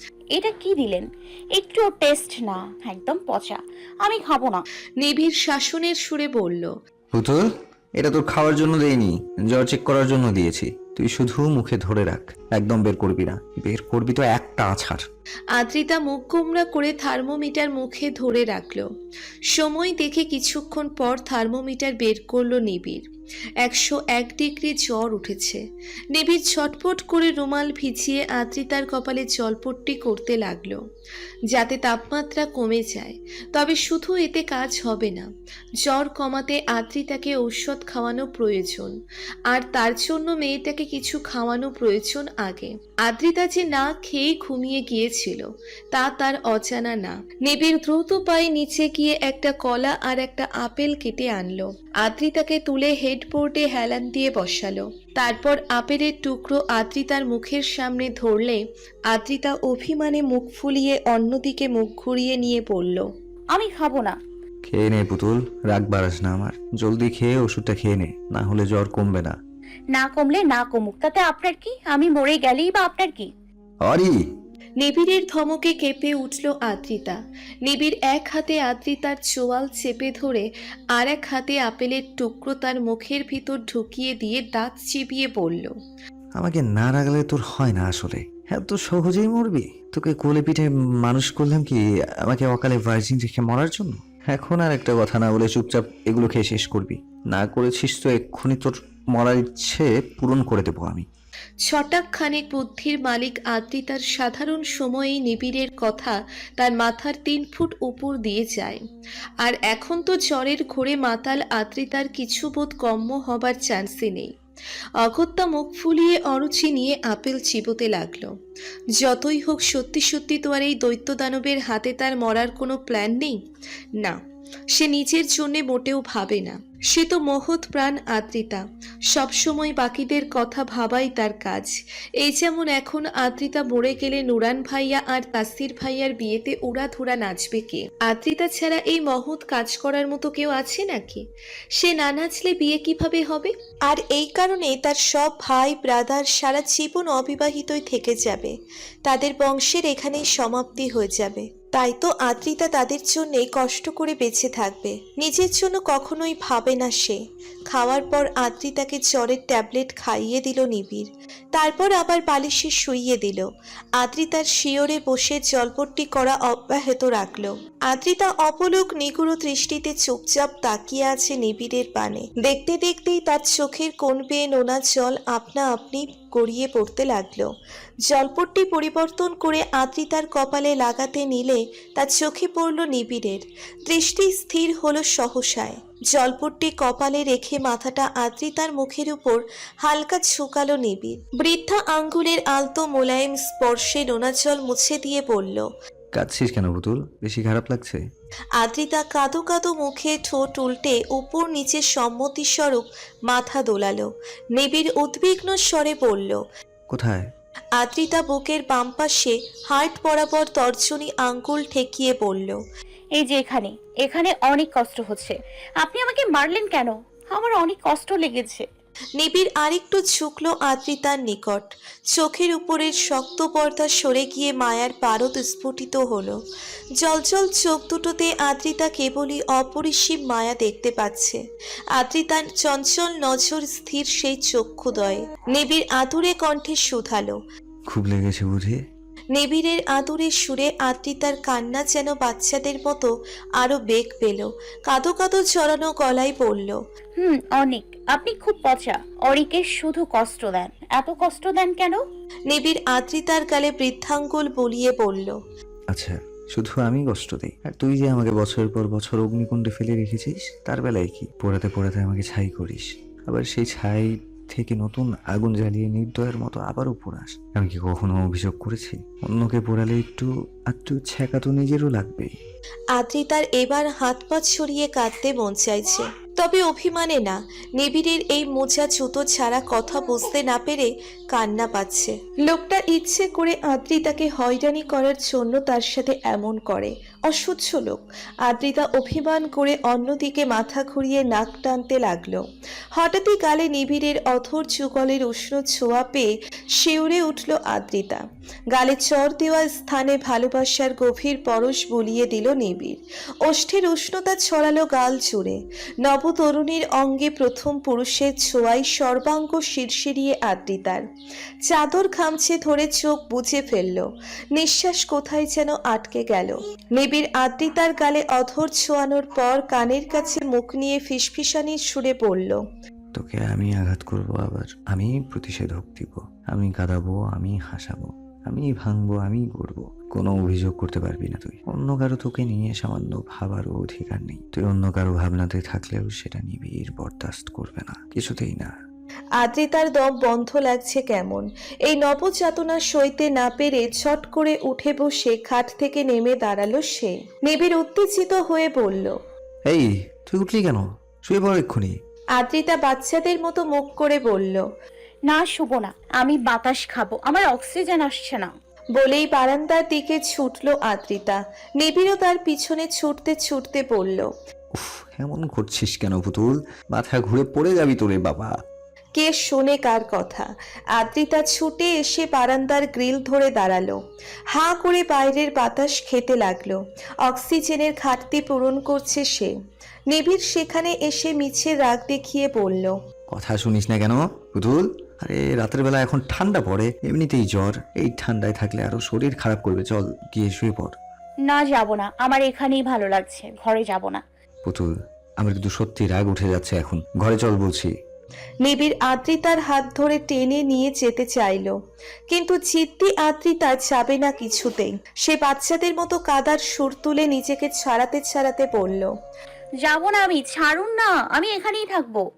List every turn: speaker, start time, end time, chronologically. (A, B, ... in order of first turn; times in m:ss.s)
0:00.3-0:04.6 A
0:05.0-0:06.7 B
0:07.1-0:07.4 C
0:08.0-0:15.0 C
0:15.5-0:18.8 B
0:19.5-0:23.0 B
0:23.6-0:25.6 B
0:26.1-0:30.8 B
0:31.5-0:35.3 B
0:35.8-0:38.9 B
0:39.5-1:03.1 B
1:03.5-1:04.2 A
1:04.6-1:09.4 C
1:09.9-1:13.3 A
1:13.8-1:14.2 C
1:14.8-1:25.7 B
1:26.4-1:41.0 C
1:41.6-1:48.8 B
1:49.4-1:54.3 B
1:55.0-1:58.3 B
1:59.0-2:03.4 B
2:04.7-2:21.2 B
2:21.8-2:28.5 B
2:29.0-2:43.5 B
2:44.0-2:57.5 B
2:58.0-3:15.7 B
3:16.1-3:18.0 C
3:18.6-3:26.4 B
3:26.9-3:27.2 C
3:27.8-3:32.6 B
3:33.1-3:38.6 A
3:39.2-3:46.4 B
3:47.0-3:51.4 B
3:51.9-3:57.4 B
3:57.9-3:58.8 C
3:59.3-4:06.8 B
4:07.2-4:12.0 A
4:12.5-4:15.4 B
4:15.9-4:32.3 C
4:32.9-4:52.4 B
4:52.9-5:11.0 B
5:11.6-5:22.6 B
5:23.1-5:38.7 C
5:39.4-5:49.2 B
5:49.6-5:51.9 C
5:52.3-5:54.6 B
5:55.3-5:58.5 A
5:58.9-6:04.3 B
6:04.7-6:08.5 C
6:09.1-6:14.0 B
6:14.5-6:19.5 B
6:20.1-6:23.0 B
6:23.3-6:31.0 C
6:31.4-6:34.2 A
6:34.6-6:37.9 C
6:38.6-6:41.7 B
6:42.3-6:49.1 B
6:49.8-6:52.2 A